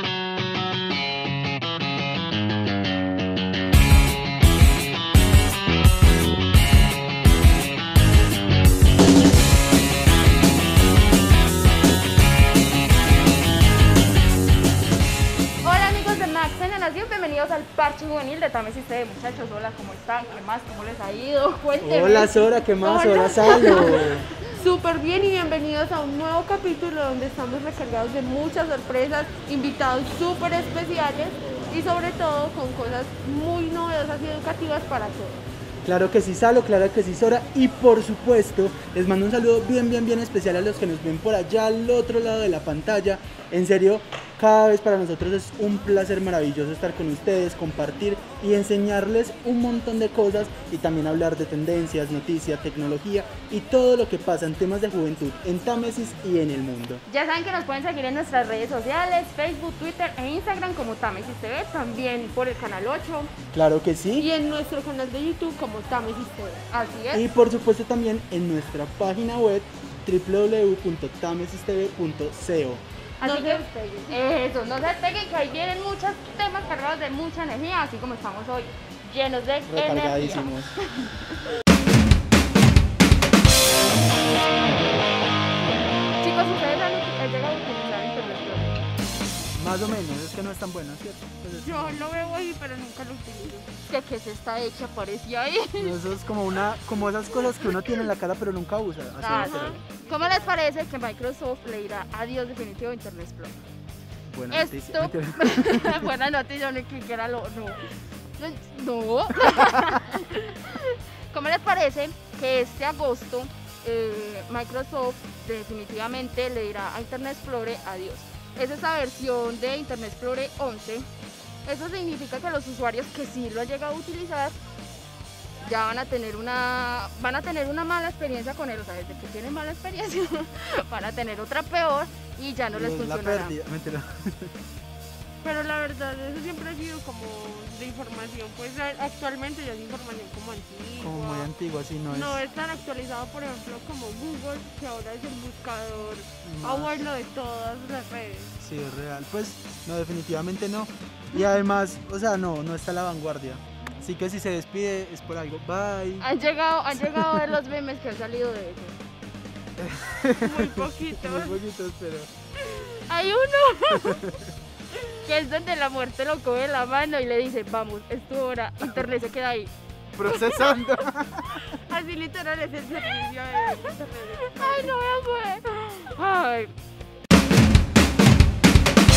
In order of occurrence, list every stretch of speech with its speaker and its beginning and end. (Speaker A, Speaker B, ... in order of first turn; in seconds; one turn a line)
Speaker A: 15.6-22.3
Speaker B: 21.8-24.2
Speaker C: 22.8-35.5
Speaker B: 35.8-57.0
Speaker A: 57.1-63.3
Speaker B: 63.5-64.3
Speaker C: 64.2-66.6
Speaker A: 66.7-67.2
Speaker B: 67.1-72.8
Speaker C: 73.2-74.2
Speaker A: 73.2-81.2
Speaker B: 79.7-80.7
Speaker A: 86.2-88.8
Speaker B: 89.5-92.0
Speaker C: 91.5-93.7
Speaker A: 93.8-95.9
Speaker B: 95.8-99.8
Speaker A: 99.2-103.5
Speaker C: 99.2-100.5
Speaker B: 104.3-106.1
Speaker A: 104.5-107.8
Speaker A: 108.4-121.1
Speaker A: 121.6-124.5
Speaker A: 125.6-133.6
Speaker B: 132.7-134.5
Speaker C: 135.4-141.5
Speaker B: 141.0-142.4
Speaker C: 142.1-148.6
Speaker B: 146.4-147.0
Speaker B: 148.6-156.2
Speaker A: 156.2-159.0
Speaker B: 159.8-162.3
Speaker C: 160.4-161.6
Speaker A: 163.1-164.2
Speaker B: 164.1-164.4
Speaker A: 165.2-169.7
Speaker B: 170.2-171.6
Speaker A: 170.2-170.8
Speaker C: 171.9-174.9
Speaker A: 174.6-176.7